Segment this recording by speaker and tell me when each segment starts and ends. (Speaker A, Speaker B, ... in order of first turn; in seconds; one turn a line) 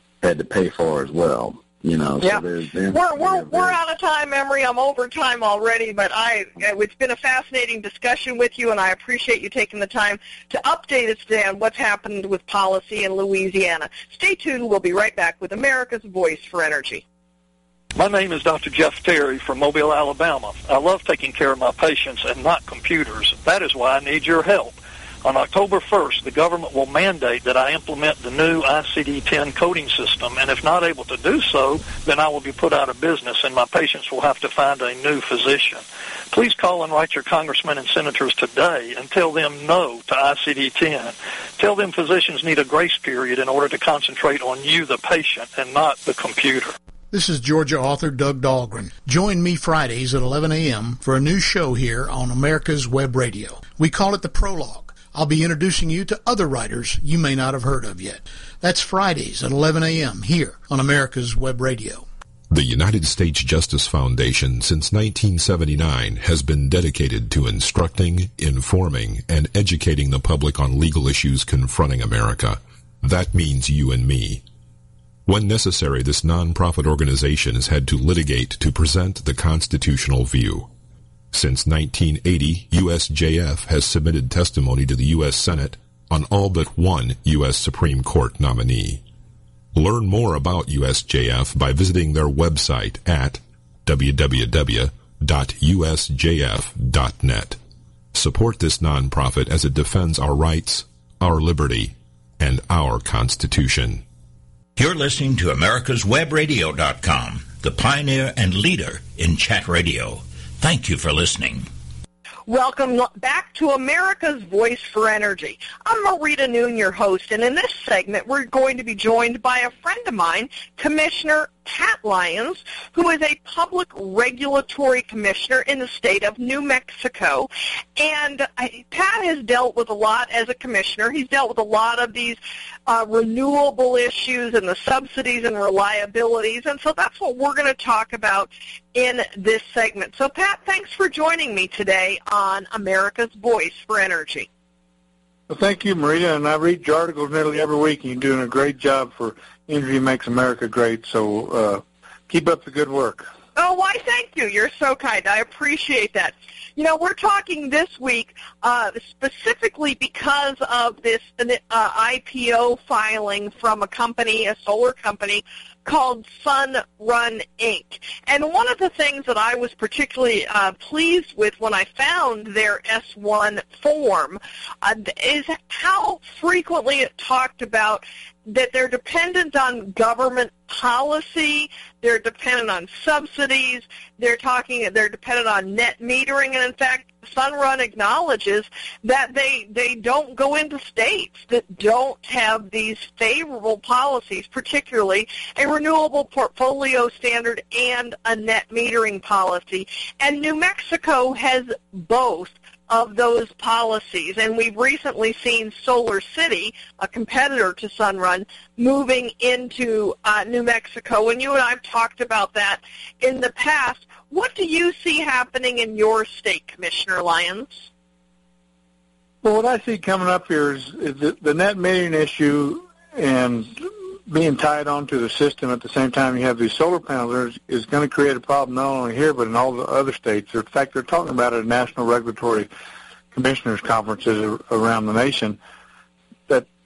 Speaker A: 0.2-3.8
Speaker B: 2.2-17.0
Speaker C: 17.9-46.7
Speaker D: 47.1-62.1
Speaker E: 62.5-74.4
Speaker E: 75.3-80.7
Speaker E: 81.3-89.0
Speaker E: 89.7-97.6
Speaker E: 98.1-104.0
Speaker F: 104.8-111.7
Speaker B: 112.5-144.5
Speaker G: 145.5-153.3
Speaker B: 153.6-217.8
Speaker G: 219.4-232.7
Speaker G: 233.3-235.6